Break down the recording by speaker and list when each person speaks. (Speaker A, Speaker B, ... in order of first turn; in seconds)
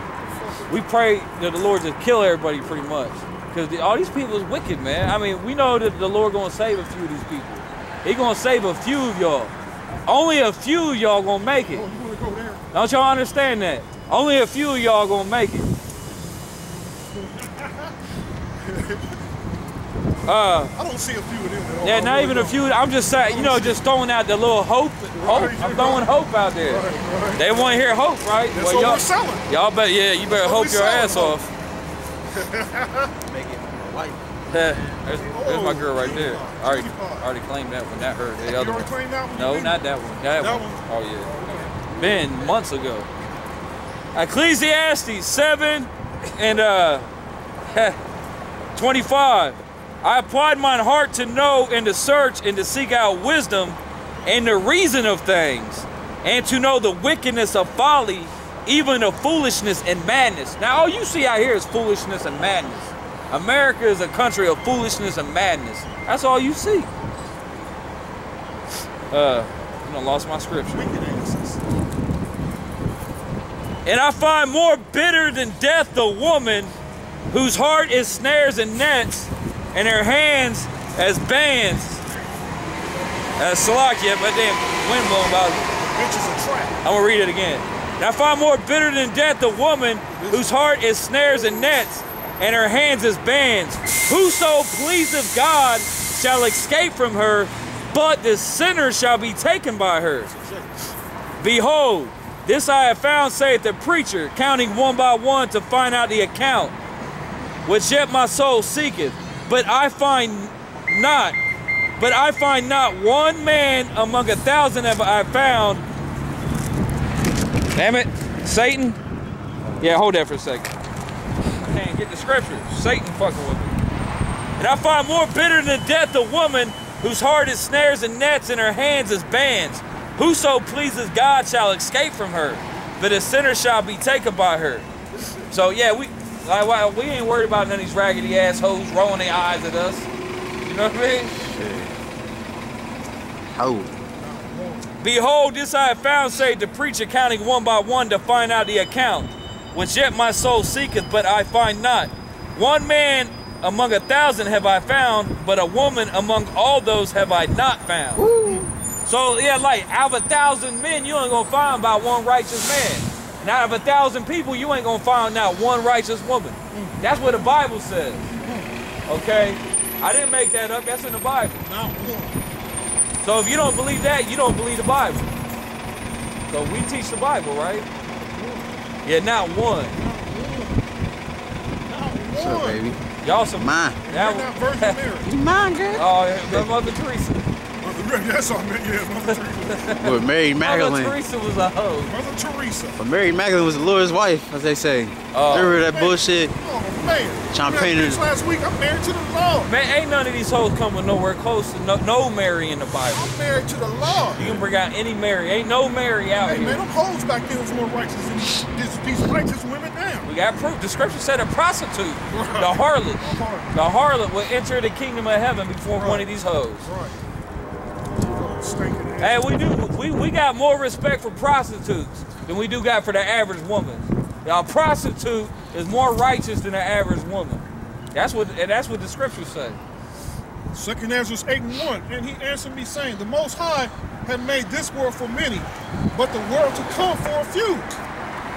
Speaker A: 0.2-0.9, 11.7-12.7, 17.1-17.9, 18.6-19.2, 20.7-23.8, 25.2-26.1, 26.6-27.9, 28.5-29.5, 30.3-31.5, 32.3-33.1, 35.2-37.3, 38.4-39.8, 40.4-41.9, 70.7-71.7, 85.8-86.8, 90.1-90.5, 100.2-100.9, 135.1-135.5, 144.2-144.9, 158.4-158.7, 166.7-167.0, 168.4-168.7, 171.6-172.4, 178.0-178.8, 179.9-180.8, 181.9-182.9, 184.1-185.3, 187.8-190.0, 192.1-193.0, 195.6-199.7, 203.1-204.6, 206.4-210.3, 212.3-213.9, 215.9-216.3, 216.8-217.2, 218.2-219.8, 230.7-238.0
Speaker B: 0.7-9.5, 10.1-11.9, 12.7-15.7, 20.2-20.7, 21.8-31.5, 34.5-41.3, 41.9-43.1, 44.1-47.1, 47.7-48.0, 48.8-66.9, 69.1-70.9, 73.8-76.8, 77.3-82.0, 83.4-85.7, 86.8-100.3, 101.4-106.8, 107.7-111.4, 112.0-115.8, 117.7-119.0, 119.8-120.7, 121.6-123.8, 124.6-134.9, 135.5-140.1, 140.6-141.3, 145.0-158.3, 159.1-168.3, 169.1-171.7, 173.2-175.2, 176.5-177.9, 179.0-180.0, 183.2-185.0, 185.9-187.5, 189.3-192.2, 195.3-195.8, 199.7-203.3, 204.4-206.8, 210.2-216.9, 219.2-229.8
Speaker C: 33.2-35.0, 41.9-42.4, 141.4-141.9, 143.5-143.9, 158.2-158.7, 182.3-183.0, 183.6-184.0, 185.2-186.7, 190.0-191.2, 193.0-196.5, 197.5-198.3